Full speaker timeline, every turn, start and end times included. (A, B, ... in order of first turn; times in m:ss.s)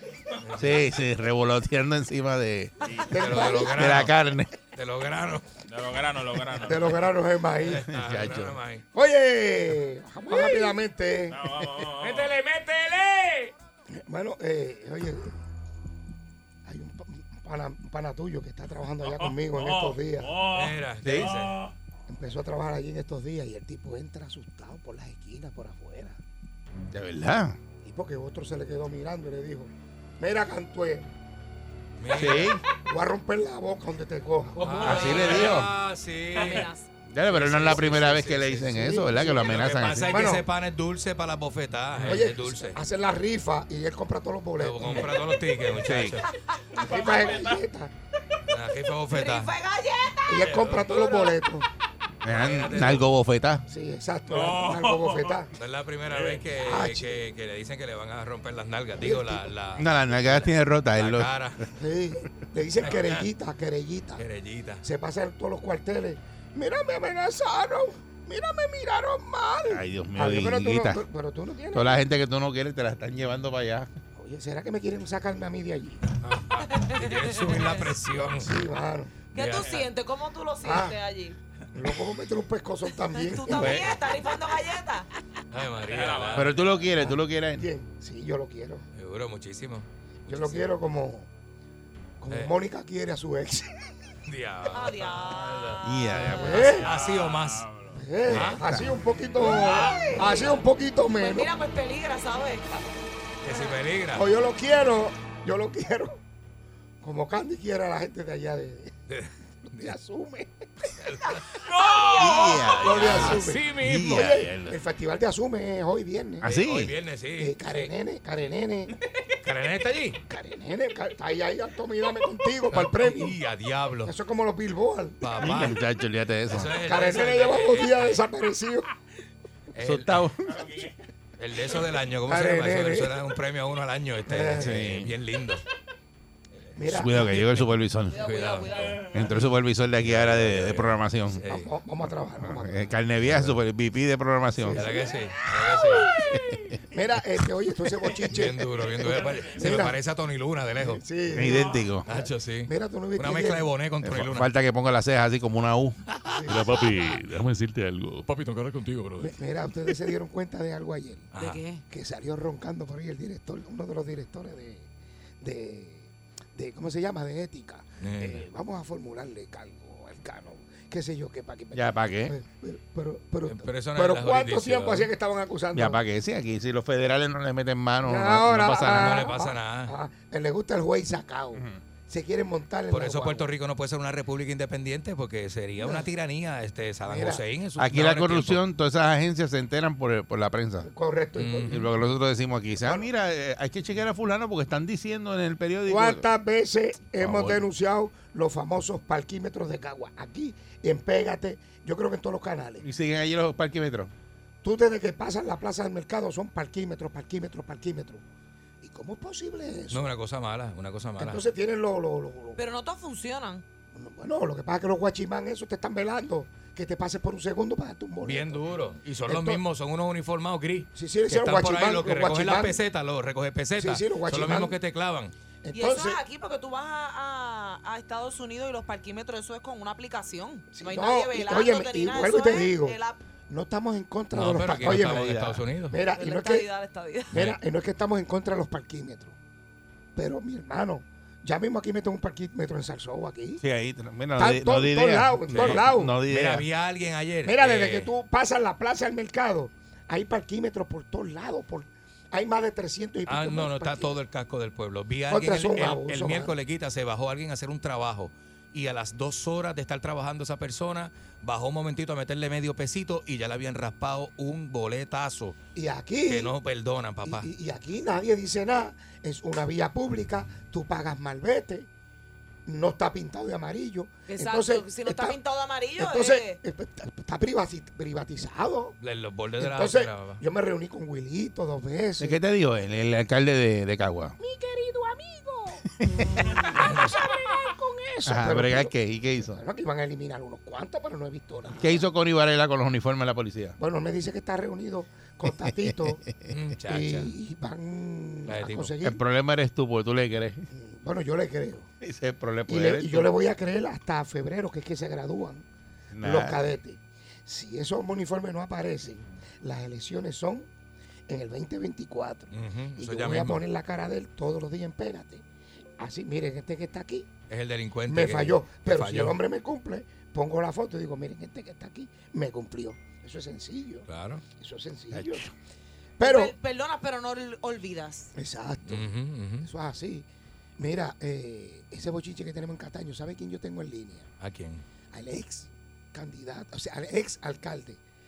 0:00.4-0:00.9 A
0:00.5-0:04.5 B
0:03.1-0:04.0 C
0:03.1-0:04.2 A
0:04.7-0:05.5 A
0:05.7-0:06.9 D
0:06.5-0:07.9 C
0:07.6-0:08.8 A
0:07.9-0:08.6 B
0:08.9-0:11.9 C
0:10.4-0:10.6 E
0:11.4-0:12.3 D
0:12.0-0:13.5 A
0:13.9-0:15.3 C
0:16.6-0:20.4 C
0:19.2-0:21.7 D
0:20.5-0:21.6 A
0:21.0-0:21.3 B
0:22.1-0:26.2 C
0:26.9-0:27.6 B
0:27.8-0:31.1 C
0:32.0-0:32.6 A
0:32.1-0:32.6 B
0:32.9-0:35.0 C
0:34.6-0:36.7 A
0:34.8-0:35.7 B
0:35.0-0:35.2 E
0:36.4-0:36.9 E
0:37.1-0:40.2 B
0:37.3-0:38.7 A
0:38.6-0:40.4 C
0:39.4-0:42.8 A
0:42.1-0:45.2 C
0:44.6-0:46.3 A
0:45.8-0:46.2 B
0:46.8-0:47.9 C
0:48.5-0:49.5 A
0:49.1-0:50.5 E
0:50.3-0:51.7 C
0:50.4-0:51.4 A
0:52.2-0:53.6 B
0:52.3-0:53.1 A
0:53.7-0:55.5 C
0:55.6-1:01.6 A
0:56.4-0:57.2 C
0:59.0-0:59.5 C
0:59.8-1:01.3 B
1:01.7-1:04.2 C
1:02.8-1:03.3 A
1:04.2-1:04.8 A
1:04.8-1:12.0 C
1:09.7-1:11.0 B
1:11.7-1:13.9 B
1:14.2-1:16.0 C
1:16.2-1:18.7 A
1:16.6-1:17.9 E
1:18.4-1:19.2 C
1:19.3-1:19.9 A
1:19.3-1:21.4 E
1:20.6-1:21.0 C
1:21.7-1:24.0 C
1:23.1-1:25.1 E
1:23.5-1:24.0 B
1:25.5-1:26.6 A
1:26.3-1:27.7 B
1:27.0-1:28.8 C
1:29.0-1:30.7 A
1:30.3-1:31.3 C
1:32.2-1:33.9 C
1:32.3-1:32.6 A
1:34.3-1:35.8 A
1:34.7-1:36.6 E
1:35.8-1:36.8 B
1:36.4-1:37.0 C
1:36.6-1:37.7 A
1:38.0-1:41.5 C
1:38.3-1:38.6 A
1:38.3-1:38.9 B
1:39.6-1:42.7 E
1:43.4-1:44.3 A
1:44.2-1:46.2 C
1:47.0-1:48.9 C
1:49.1-1:49.9 A
1:49.6-1:50.9 C
1:51.0-1:54.4 A
1:51.7-1:52.8 E
1:52.2-1:54.8 B
1:52.8-1:56.5 C
1:56.4-1:56.9 B
1:56.4-1:57.9 A
1:57.4-1:59.0 C
1:59.4-2:00.2 A
2:00.3-2:03.4 C
2:02.7-2:04.1 A
2:04.1-2:05.3 C
2:05.2-2:05.8 A
2:05.4-2:06.7 B
2:06.5-2:08.2 A
2:06.8-2:08.9 C
2:09.7-2:10.3 A
2:09.8-2:10.8 B
2:11.4-2:15.6 A
2:12.3-2:13.2 C
2:14.3-2:14.8 C
2:14.6-2:15.1 B
2:16.8-2:17.5 C
2:16.8-2:18.3 B
2:17.2-2:17.6 A
2:18.1-2:19.3 E
2:18.1-2:19.1 A
2:19.0-2:21.4 B
2:20.0-2:21.7 A
2:21.4-2:22.9 C
2:22.4-2:24.9 B
2:24.6-2:30.0 C
2:24.8-2:26.1 A
2:26.3-2:26.8 B
2:28.2-2:31.5 A
2:30.8-2:33.7 C
2:31.3-2:32.1 B
2:32.1-2:34.5 A
2:34.0-2:36.0 B
2:36.3-2:36.8 C
2:36.5-2:39.4 D
2:39.2-2:41.3 C
2:41.3-2:41.6 A
2:41.4-2:41.8 E
2:41.9-2:44.9 C
2:45.4-2:56.0 C
2:48.0-2:48.5 A
2:51.7-2:52.4 B
2:53.5-2:55.1 A
2:55.7-2:59.3 B
2:58.0-3:03.5 C
2:58.7-3:00.0 A
3:01.5-3:01.8 B
3:02.9-3:08.6 A
3:05.8-3:06.1 C
3:07.1-3:07.4 C
3:07.8-3:10.9 B
3:10.8-3:11.9 C
3:11.4-3:11.9 A
3:11.7-3:16.3 B
3:12.8-3:13.1 C
3:15.9-3:22.8 C
3:17.2-3:17.7 B
3:22.8-3:24.1 B
3:24.6-3:28.2 C
3:28.8-3:30.1 C
3:29.9-3:31.4 A
3:31.2-3:32.6 C
3:32.6-3:33.6 E
3:33.9-3:38.7 C
3:38.2-3:45.3 A
3:39.3-3:39.6 C
3:41.0-3:42.8 C
3:43.8-3:44.8 C
3:45.6-3:46.2 C
3:45.7-3:53.2 E
3:50.7-3:53.0 C
3:53.5-3:55.3 C
3:54.3-3:56.0 A
3:54.8-3:55.6 B
3:55.9-3:56.7 C
3:56.1-3:57.4 E
3:57.3-3:59.4 C
4:00.2-4:03.6 C
4:03.6-4:06.6 B
4:04.4-4:06.2 C
4:05.5-4:08.1 A
4:07.4-4:14.2 C
4:13.3-4:25.6 A
4:15.3-4:16.5 C
4:25.8-4:26.5 C
4:26.2-4:27.5 A
4:27.2-4:31.9 C
4:32.7-4:35.4 C
4:34.3-4:36.6 E
4:36.0-4:39.0 C
4:39.0-4:40.4 A
4:39.6-4:42.4 C
4:42.2-4:44.4 B
4:44.4-4:52.1 C
4:46.0-4:46.7 B
4:48.3-4:49.6 B
4:51.7-4:53.8 B
4:53.8-4:56.2 C
4:55.5-4:56.1 B
4:56.5-4:57.3 A
4:56.9-4:59.2 C
4:58.5-4:58.9 A
4:59.0-5:00.7 B
5:00.7-5:01.9 C
5:02.0-5:03.3 B
5:02.7-5:05.6 C
5:06.1-5:06.6 B
5:06.2-5:10.7 C
5:11.3-5:15.4 C
5:12.5-5:13.6 A
5:16.0-5:17.3 C
5:17.5-5:19.4 A
5:18.1-5:24.1 C
5:24.1-5:24.4 A
5:24.6-5:25.5 C
5:25.1-5:25.5 B
5:26.2-5:26.6 C
5:26.2-5:28.3 E
5:28.4-5:29.1 C
5:28.9-5:29.7 A
5:29.6-5:30.3 C
5:30.8-5:34.3 C
5:34.4-5:34.8 A
5:35.1-5:38.0 C